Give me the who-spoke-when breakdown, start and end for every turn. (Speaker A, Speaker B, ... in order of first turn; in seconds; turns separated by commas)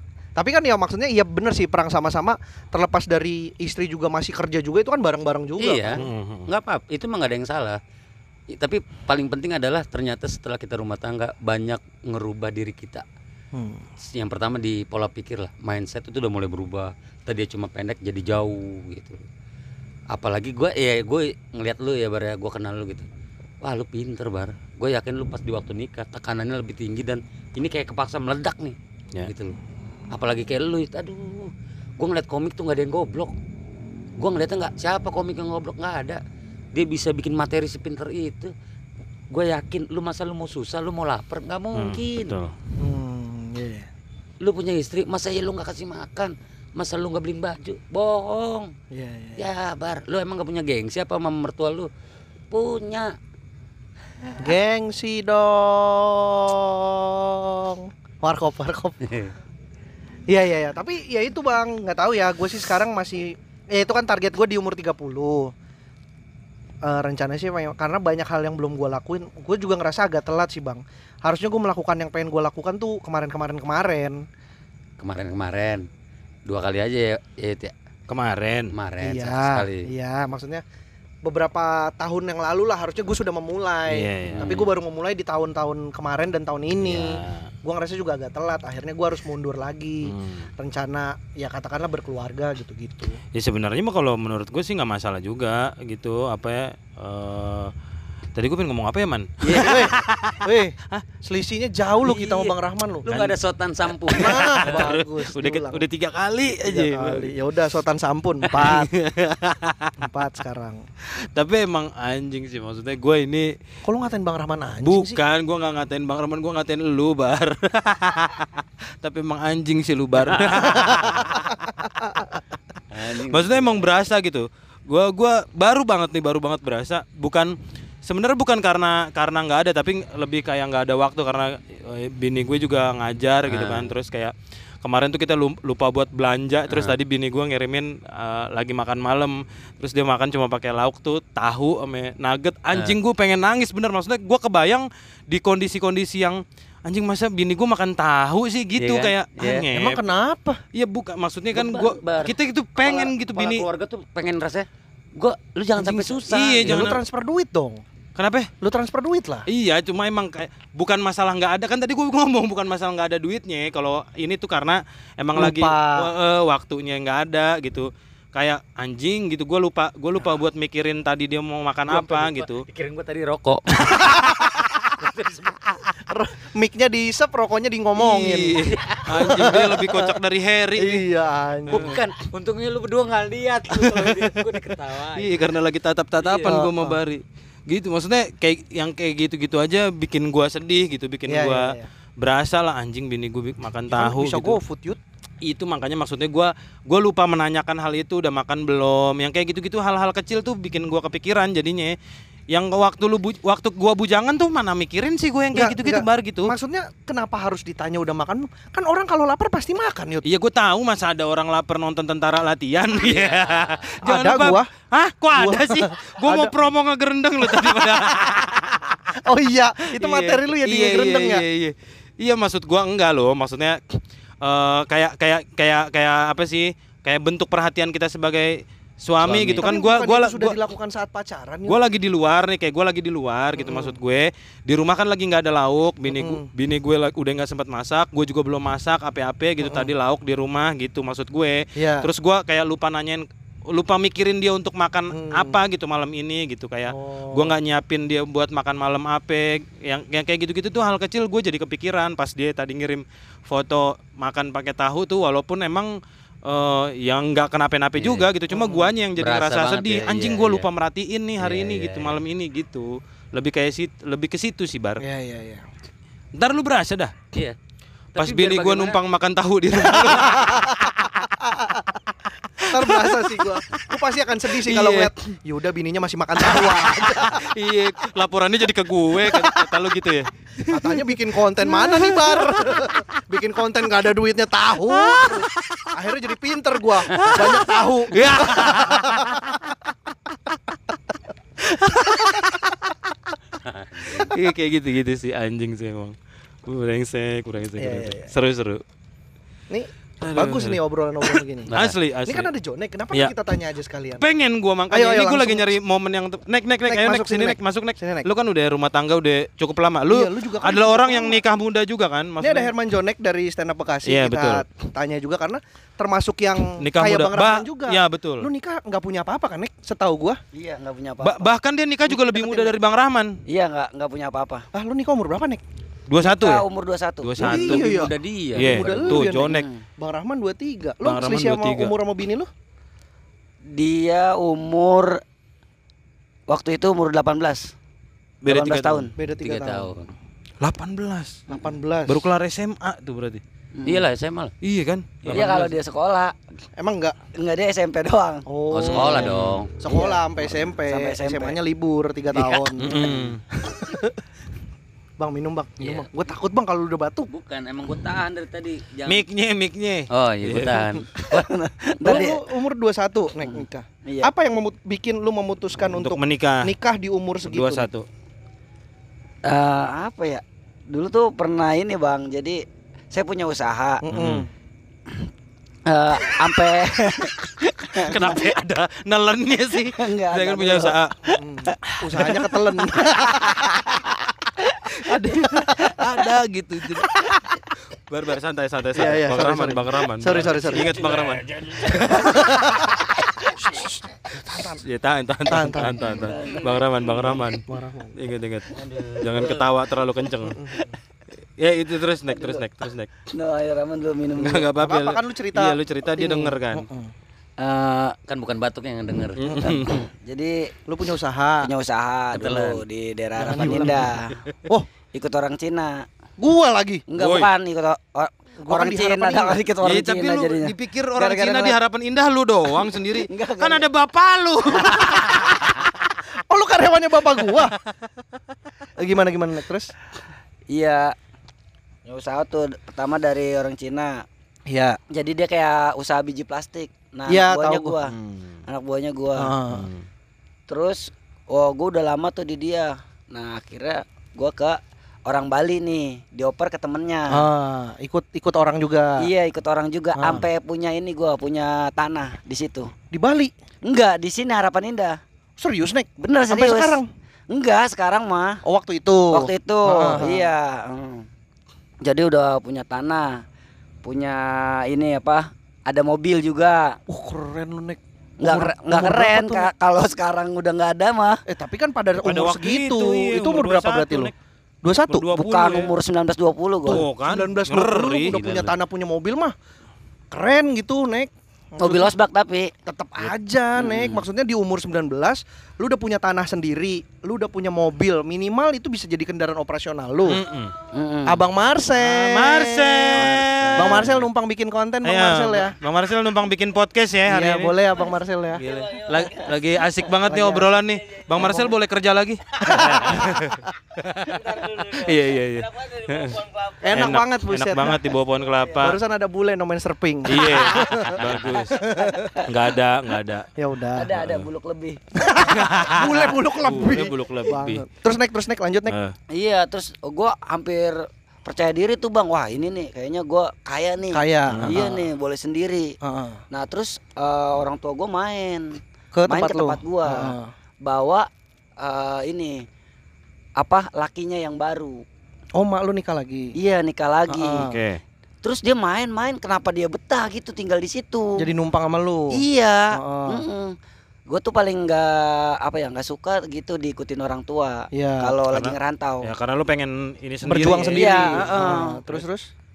Speaker A: 0.4-6.0, Speaker B: 5.6-7.8, Speaker C: 6.0-6.5, Speaker B: 8.5-13.1, Speaker A: 13.5-13.8, Speaker B: 14.0-19.2, Speaker B: 20.1-23.1, Speaker B: 23.6-29.6, Speaker B: 30.1-33.3, Speaker B: 34.2-36.2, Speaker B: 36.7-38.5, Speaker B: 39.3-42.4, Speaker C: 41.8-42.5, Speaker A: 42.8-43.9, Speaker B: 44.4-48.7, Speaker A: 48.9-49.5, Speaker B: 49.4-51.9, Speaker B: 52.5-53.2, Speaker A: 54.4-59.0, Speaker B: 59.0-59.3, Speaker A: 60.3-65.5, Speaker A: 66.8-74.2, Speaker B: 75.0-75.9, Speaker B: 76.5-77.7, Speaker C: 78.1-78.7, Speaker B: 78.7-79.9, Speaker A: 79.0-80.6, Speaker A: 81.2-93.2, Speaker C: 83.9-84.6, Speaker B: 84.3-84.7, Speaker C: 86.8-87.5, Speaker C: 90.0-90.5, Speaker C: 93.3-97.7, Speaker C: 98.4-101.0, Speaker B: 99.4-99.9, Speaker A: 99.5-103.2, Speaker B: 102.0-104.9, Speaker A: 104.1-105.9, Speaker C: 104.1-107.3, Speaker A: 106.7-108.9, Speaker C: 108.5-110.0, Speaker A: 110.0-110.8, Speaker C: 111.2-113.5, Speaker A: 113.8-115.2, Speaker C: 114.8-121.5, Speaker A: 120.4-122.4, Speaker B: 122.9-123.9, Speaker C: 123.2-150.0, Speaker B: 133.5-133.9, Speaker B: 136.7-137.0, Speaker B: 148.8-149.7, Speaker A: 149.7-150.6, Speaker C: 150.7-153.7, Speaker B: 151.5-156.9, Speaker A: 155.8-157.8, Speaker C: 156.3-157.0, Speaker C: 158.2-158.5, Speaker A: 158.6-159.5, Speaker C: 159.5-172.7, Speaker A: 165.3-166.1, Speaker B: 171.9-174.2, Speaker C: 173.9-174.7, Speaker B: 174.9-175.8, Speaker A: 176.1-178.6, Speaker C: 178.0-181.1, Speaker B: 178.7-179.4, Speaker A: 179.2-180.2, Speaker A: 180.8-181.9, Speaker C: 181.7-182.0, Speaker B: 181.7-185.5, Speaker C: 183.7-184.4, Speaker C: 185.2-194.6, Speaker B: 186.2-186.6, Speaker A: 186.4-187.0, Speaker A: 191.3-191.9, Speaker A: 193.9-195.0, Speaker C: 195.4-201.9, Speaker C: 202.5-206.6, Speaker A: 205.5-210.3, Speaker C: 210.2-219.0, Speaker B: 213.0-213.9, Speaker A: 214.0-214.7, Speaker A: 215.3-216.5, Speaker A: 217.5-218.3, Speaker A: 219.2-221.4, Speaker C: 219.9-230.6, Speaker B: 229.2-229.6, Speaker A: 229.5-231.8, Speaker C: 231.7-265.0, Speaker A: 233.6-234.0, Speaker A: 236.1-236.5, Speaker A: 239.6-239.9, Speaker A: 241.8-242.1, Speaker A: 245.1-245.6, Speaker A: 246.9-247.6, Speaker B: 258.0-258.3, Speaker A: 258.5-258.9, Speaker B: 259.2-260.7, Speaker B: 261.4-262.2, Speaker A: 265.0-265.6, Speaker C: 266.4-267.1, Speaker C: 268.1-271.1, Speaker B: 268.2-269.0, Speaker A: 269.9-270.7, Speaker A: 271.4-271.9, Speaker C: 272.6-273.9, Speaker A: 272.6-277.5, Speaker C: 274.6-275.1, Speaker C: 276.5-282.9, Speaker A: 279.2-279.7, Speaker A: 280.7-289.5, Speaker C: 284.8-285.9, Speaker C: 287.1-289.9, Speaker C: 291.6-292.9, Speaker B: 293.6-294.3, Speaker C: 294.2-298.8, Speaker A: 297.8-298.3, Speaker A: 299.7-301.7, Speaker C: 300.2-302.5, Speaker A: 302.3-304.3, Speaker C: 304.2-312.7, Speaker A: 304.9-305.7, Speaker A: 306.9-308.3, Speaker A: 310.1-311.4, Speaker A: 312.4-320.4, Speaker C: 314.1-314.6, Speaker C: 316.8-318.5, Speaker D: 320.5-321.5, Speaker C: 321.2-323.4, Speaker D: 322.1-322.7, Speaker D: 323.5-324.7, Speaker A: 324.7-325.6, Speaker C: 326.1-326.6, Speaker D: 326.2-327.4, Speaker C: 327.2-327.9, Speaker A: 327.4-332.5, Speaker B: 327.4-329.2, Speaker C: 328.6-329.7, Speaker D: 329.4-329.8, Speaker C: 331.0-331.9, Speaker D: 333.7-335.2, Speaker D: 336.5-337.7, Speaker C: 338.4-339.1, Speaker D: 338.5-339.1, Speaker A: 339.2-339.9, Speaker B: 339.4-340.1, Speaker C: 340.6-341.4, Speaker A: 341.5-342.3, Speaker C: 342.1-343.4, Speaker D: 343.8-344.0, Speaker B: 343.9-344.5, Speaker C: 344.6-345.8, Speaker D: 345.3-346.4, Speaker A: 346.8-347.2, Speaker D: 347.4-349.3, Speaker A: 348.5-354.1, Speaker B: 348.7-349.7, Speaker C: 349.2-349.6, Speaker D: 349.9-350.2, Speaker D: 350.8-351.6, Speaker C: 352.8-353.4, Speaker B: 352.9-353.2, Speaker D: 353.0-353.2, Speaker A: 355.2-357.3, Speaker B: 357.3-359.2, Speaker C: 359.1-360.9, Speaker B: 360.1-361.5, Speaker D: 361.2-362.4, Speaker A: 362.0-367.9, Speaker D: 363.5-364.3, Speaker C: 365.9-366.7, Speaker C: 367.4-368.1, Speaker D: 369.4-374.0, Speaker A: 374.0-374.5, Speaker C: 374.1-374.5, Speaker D: 375.9-378.5, Speaker C: 377.9-381.2, Speaker D: 379.9-382.5, Speaker A: 381.4-383.8, Speaker C: 381.9-382.4, Speaker D: 383.2-385.1, Speaker C: 384.9-387.2, Speaker C: 388.1-392.4, Speaker A: 388.9-390.9, Speaker B: 390.8-392.3, Speaker A: 392.2-393.0, Speaker A: 393.6-394.8, Speaker C: 394.8-397.6, Speaker A: 395.5-396.1, Speaker D: 396.0-397.3, Speaker A: 397.7-398.1, Speaker C: 398.2-400.6, Speaker B: 398.8-399.6, Speaker A: 400.5-400.9, Speaker C: 401.6-403.1, Speaker D: 402.3-402.6, Speaker D: 403.3-404.7, Speaker C: 404.4-406.9, Speaker A: 404.8-407.1, Speaker D: 407.6-408.2, Speaker B: 408.3-409.6, Speaker C: 409.4-410.1, Speaker A: 409.4-409.8, Speaker D: 409.6-410.7, Speaker A: 410.9-411.7, Speaker D: 411.6-414.4, Speaker B: 412.3-412.8, Speaker C: 413.4-414.5, Speaker A: 413.4-414.1, Speaker D: 415.1-416.1, Speaker A: 416.4-417.0, Speaker D: 417.1-421.8, Speaker C: 417.2-417.5, Speaker A: 418.6-419.6, Speaker C: 419.8-425.9, Speaker D: 423.1-423.9, Speaker D: 424.8-425.1, Speaker A: 426.5-427.8, Speaker A: 429.0-429.9, Speaker D: 430.7-431.1, Speaker D: 432.1-434.2, Speaker A: 434.7-435.0, Speaker D: 435.1-439.5, Speaker A: 437.3-438.0, Speaker C: 438.1-438.6, Speaker A: 439.4-439.9, Speaker C: 439.7-440.0, Speaker D: 440.7-447.4, Speaker A: 447.3-449.3, Speaker D: 449.2-452.9, Speaker A: 450.2-450.5, Speaker A: 453.1-453.5, Speaker D: 453.9-455.2, Speaker A: 455.6-457.1, Speaker D: 456.2-458.6, Speaker A: 458.6-460.5, Speaker D: 459.3-461.3, Speaker D: 462.0-463.4, Speaker D: 464.0-467.0, Speaker A: 467.1-469.7, Speaker D: 468.4-471.4, Speaker A: 471.5-474.3, Speaker C: 472.2-474.3, Speaker A: 474.8-475.3, Speaker C: 475.1-475.9, Speaker D: 475.3-477.1, Speaker C: 476.9-478.4, Speaker A: 476.9-479.5, Speaker B: 478.3-478.7, Speaker A: 480.3-482.1, Speaker D: 481.8-482.7, Speaker A: 482.9-490.4, Speaker D: 483.8-484.2, Speaker C: 490.3-490.7, Speaker D: 490.9-491.4, Speaker A: 491.2-495.8, Speaker C: 492.0-494.2, Speaker C: 495.0-497.8, Speaker A: 497.3-498.6, Speaker C: 498.6-506.4, Speaker D: 498.7-499.6, Speaker D: 500.2-501.7, Speaker A: 500.3-500.7, Speaker A: 501.4-501.7, Speaker A: 502.7-503.3, Speaker D: 502.7-503.2, Speaker D: 504.3-506.9, Speaker A: 506.8-508.0, Speaker C: 506.9-509.0, Speaker A: 508.8-512.4, Speaker C: 510.3-511.9, Speaker D: 510.4-512.5, Speaker C: 512.4-513.5, Speaker A: 513.6-514.1, Speaker D: 513.9-516.0, Speaker C: 514.1-514.5, Speaker A: 515.2-519.0, Speaker C: 515.5-517.8, Speaker C: 518.9-519.1, Speaker D: 519.3-526.0, Speaker A: 524.1-525.1, Speaker C: 524.5-524.9, Speaker A: 526.0-526.4, Speaker D: 526.5-532.7, Speaker A: 529.1-530.5, Speaker D: 533.6-535.0, Speaker A: 535.5-536.5, Speaker D: 536.6-537.7, Speaker A: 537.3-537.8, Speaker C: 537.6-538.0, Speaker D: 538.4-541.5, Speaker A: 541.4-542.4, Speaker D: 542.3-543.8, Speaker A: 542.9-543.4, Speaker D: 544.3-549.3, Speaker A: 547.9-548.4, Speaker C: 548.5-552.2, Speaker A: 550.5-552.5, Speaker D: 550.6-552.0